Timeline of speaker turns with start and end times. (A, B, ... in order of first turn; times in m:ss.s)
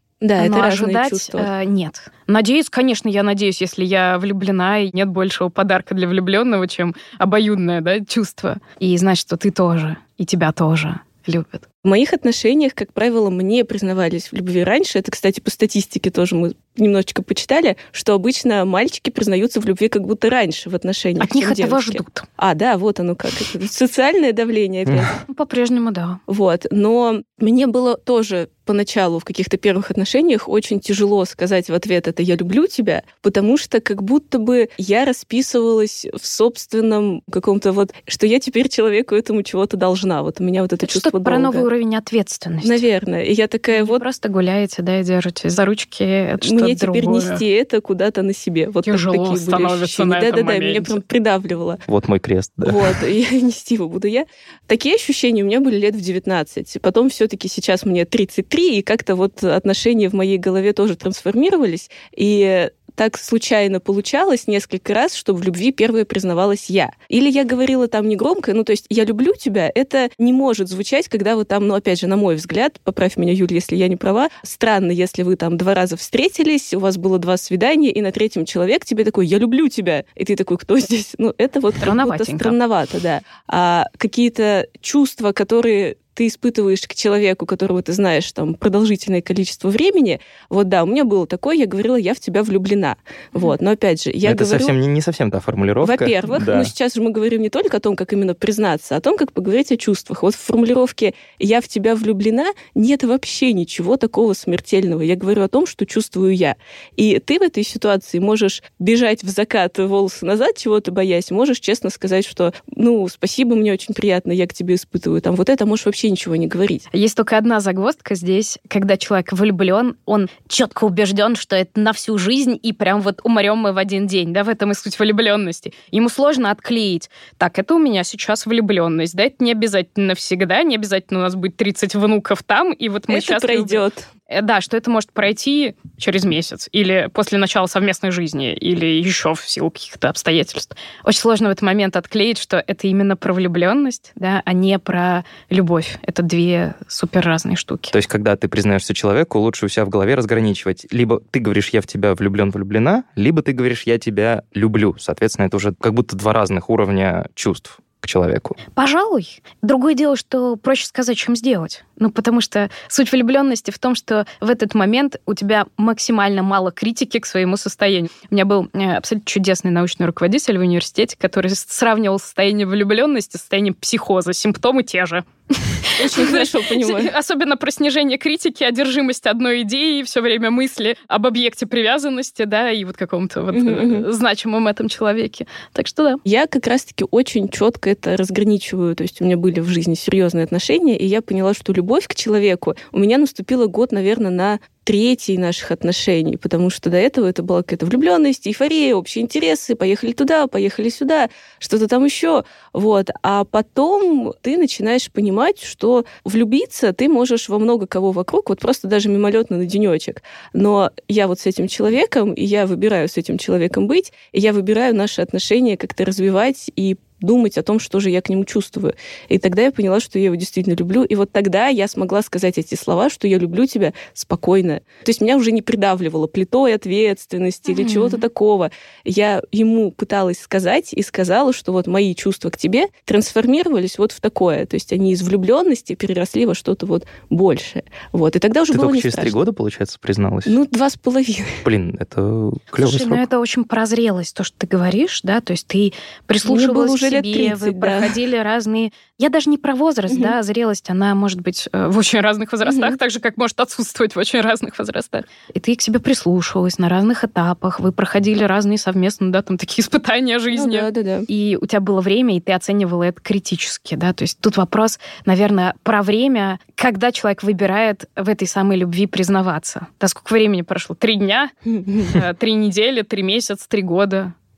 0:00.2-0:01.5 A
0:00.4-0:11.6 B
0:11.8-0:25.1 A
0:21.2-0:22.3 B
0:24.9-0:25.1 C
0:25.3-0:26.2 B
0:26.3-0:41.7 A
0:40.8-0:42.8 B
0:42.6-0:44.0 A
0:43.7-0:47.4 B
0:46.4-0:51.8 A
0:48.8-0:51.0 B
0:51.9-0:53.0 C
0:52.6-1:34.7 A
1:21.8-1:22.6 B
1:34.2-1:36.7 C
1:35.8-1:56.9 A
1:56.9-2:27.9 B
2:13.1-2:14.1 A
2:27.9-2:38.6 C
2:38.8-3:06.2 B
2:56.0-2:57.1 A
3:03.5-3:04.1 A
3:06.2-3:59.4 A
3:47.7-3:48.2 B
3:58.7-4:00.6 C
4:00.5-4:01.6 A
4:01.6-4:03.2 C
4:02.8-4:34.3 B
4:06.5-4:08.2 A
4:10.1-4:10.4 A
4:12.6-4:13.0 A
4:20.6-4:21.3 A
4:31.7-4:32.1 A